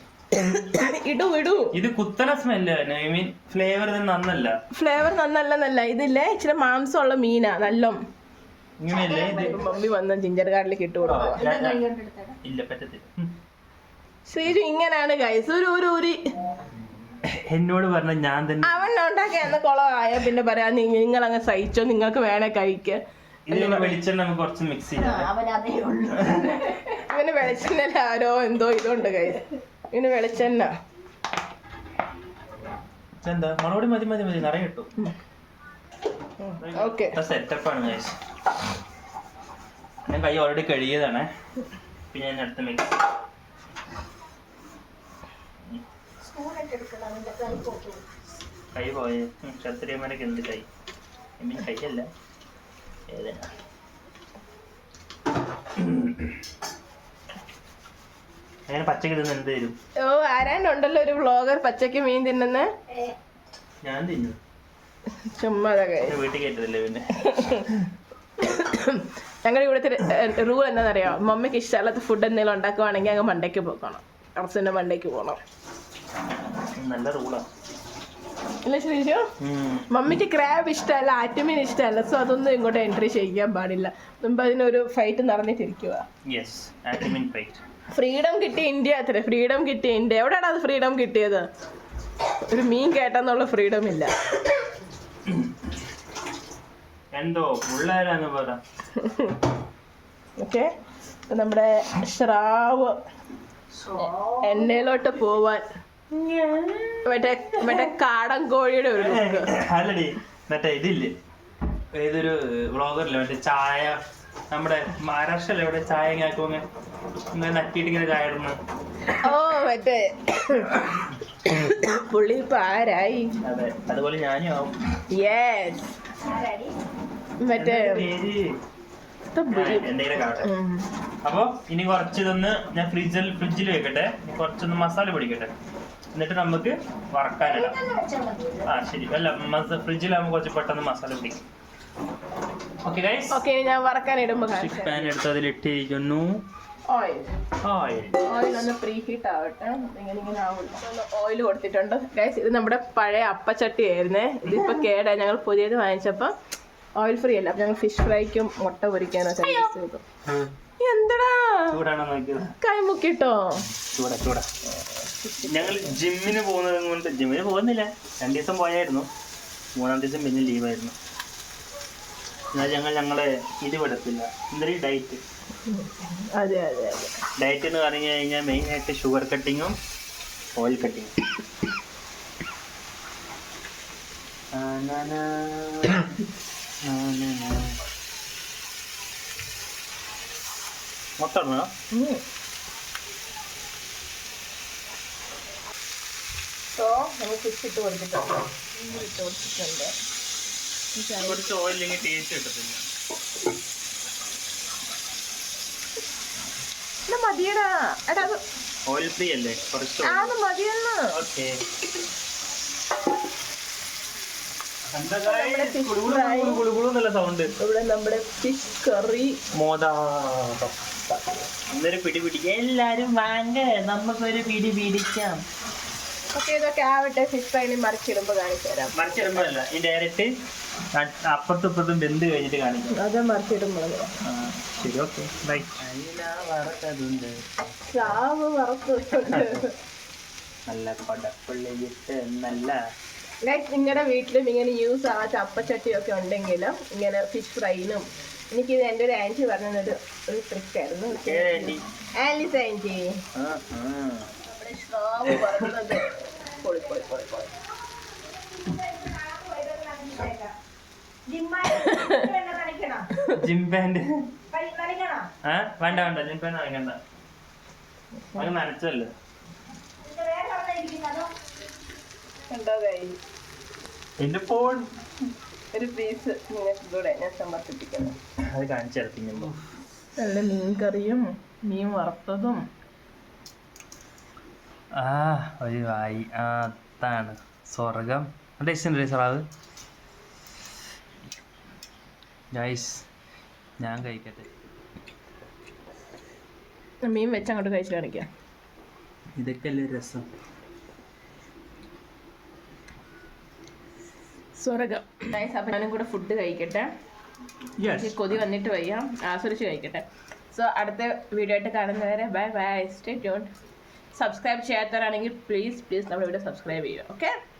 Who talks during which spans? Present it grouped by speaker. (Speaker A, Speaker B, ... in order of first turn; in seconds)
Speaker A: 0.3-1.8, 4.7-8.0, 9.1-11.4, 14.3-16.2, 18.6-23.9, 26.6-30.7, 36.4-37.2, 60.0-62.7, 65.2-66.2, 67.2-67.7, 68.4-75.4, 78.6-79.2, 79.9-86.0, 87.9-91.5, 92.5-94.1, 98.9-99.4, 100.4-100.7, 101.3-103.0, 104.0-105.6, 107.0-109.5, 119.1-123.3, 125.1-125.9, 127.4-128.1, 129.3-130.9, 143.3-145.1, 146.9-147.3, 148.2-156.3, 157.0-160.0, 160.8-161.8, 162.6-163.7, 164.8-165.9, 175.7-177.2, 191.9-192.2, 196.7-199.9, 200.9-201.4, 207.1-208.4, 210.0-211.1, 215.2-216.6, 217.6-219.4, 226.3-229.4, 232.9-234.1, 237.9-239.7, 243.4-253.2, 254.4-257.5, 261.9-262.2, 272.5-273.2, 275.7-278.2, 280.2-282.6, 297.0-298.3, 304.6-306.9, 307.9-313.5, 314.1-317.3
Speaker B: 1.7-4.5, 8.8-9.6, 11.1-11.8, 12.4-13.3, 17.2-18.9, 23.5-25.3, 33.2-34.9, 36.6-38.2, 40.0-41.3, 42.1-43.0, 48.7-50.6, 51.4-52.1, 53.1-53.5, 55.7-56.4, 58.7-59.8, 63.8-64.4, 66.0-67.8, 76.8-77.5, 79.4-79.9, 86.3-87.6, 97.1-98.6, 106.1-107.9, 108.9-111.1, 111.9-114.0, 114.5-116.6, 117.3-118.6, 123.4-124.7, 127.5-128.4, 129.5-130.5, 131.2-135.5, 136.1-137.8, 138.6-141.4, 142.8-143.4, 144.5-146.4, 147.6-148.5, 161.7-162.5, 163.8-164.5, 165.4-169.1, 169.8-170.9, 172.5-175.2, 177.4-179.8, 180.6-181.1, 184.5-186.1, 186.8-187.8, 191.2-191.7, 201.2-202.8, 208.9-210.3, 211.1-211.6, 214.9-217.5, 219.5-220.8, 221.7-225.4, 228.9-230.3, 230.9-233.0, 234.2-238.1, 239.3-239.6, 240.7-242.8, 251.1-251.8, 253.3-254.3, 255.2-255.5, 263.3-264.1, 265.4-267.0, 268.3-269.1, 274.2-274.9, 278.4-279.5, 284.9-289.4, 292.5-293.0, 293.8-294.5, 299.4-300.2, 307.8-308.2
Speaker C: 8.9-9.7, 11.0-12.4, 24.9-26.8, 46.2-48.0, 103.8-104.7, 126.2-126.7, 137.4-138.7, 258.5-260.5, 261.3-263.1, 264.5-265.3, 270.0-271.3